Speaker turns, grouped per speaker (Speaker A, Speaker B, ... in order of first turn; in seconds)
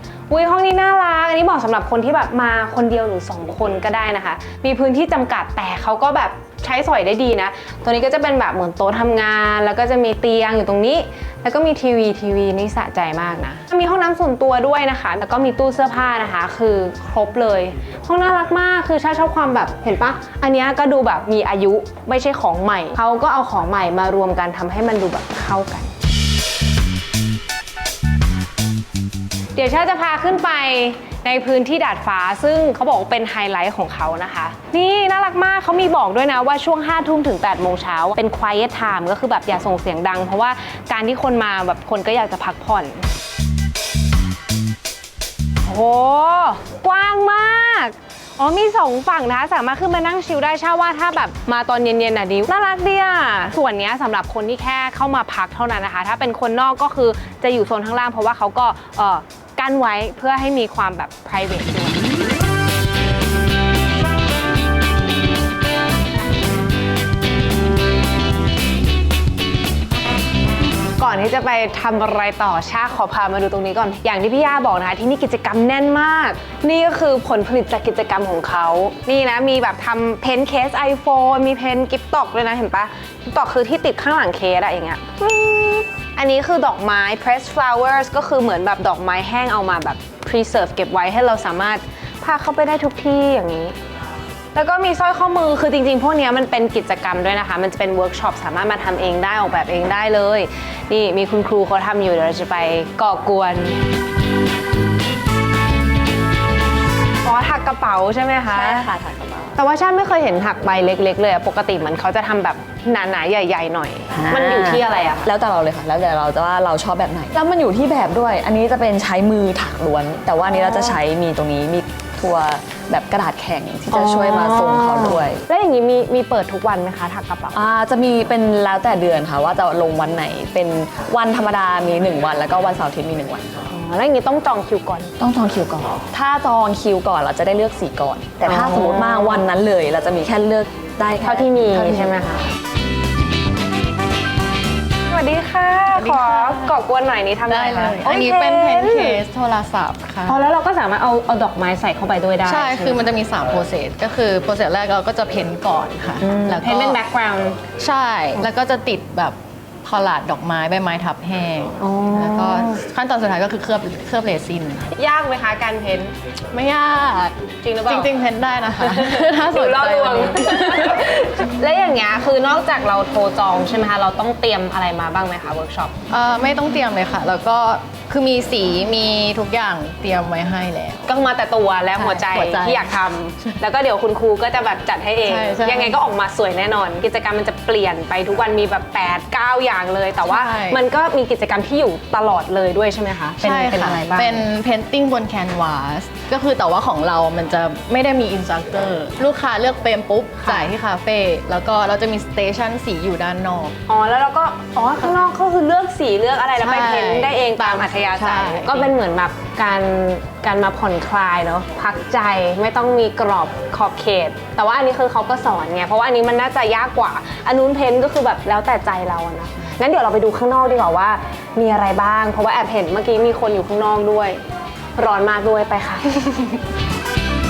Speaker A: 0.3-25.9, 29.6-43.1, 45.6-62.1, 71.0-93.8, 94.5-103.8, 107.2-108.9, 109.6-115.3, 120.4-121.0, 123.9-127.6, 133.7-135.1, 138.4-139.5, 141.2-142.5, 145.1-149.2, 150.3-153.1, 156.2-157.6, 161.8-162.8, 164.9-166.1, 167.6-168.2, 168.8-175.9, 181.1-194.5, 200.4-200.7, 203.9-224.4, 225.0-226.5
Speaker B: 108.5-109.6, 114.1-125.4, 127.5-133.5, 135.2-142.1
Speaker C: 145.9-146.7, 147.5-150.4, 152.4-157.0, 157.8-164.9, 166.5-171.0, 176.1-181.1, 182.0-182.9, 185.2-186.0, 190.3-190.8, 193.4-203.7, 206.6-208.9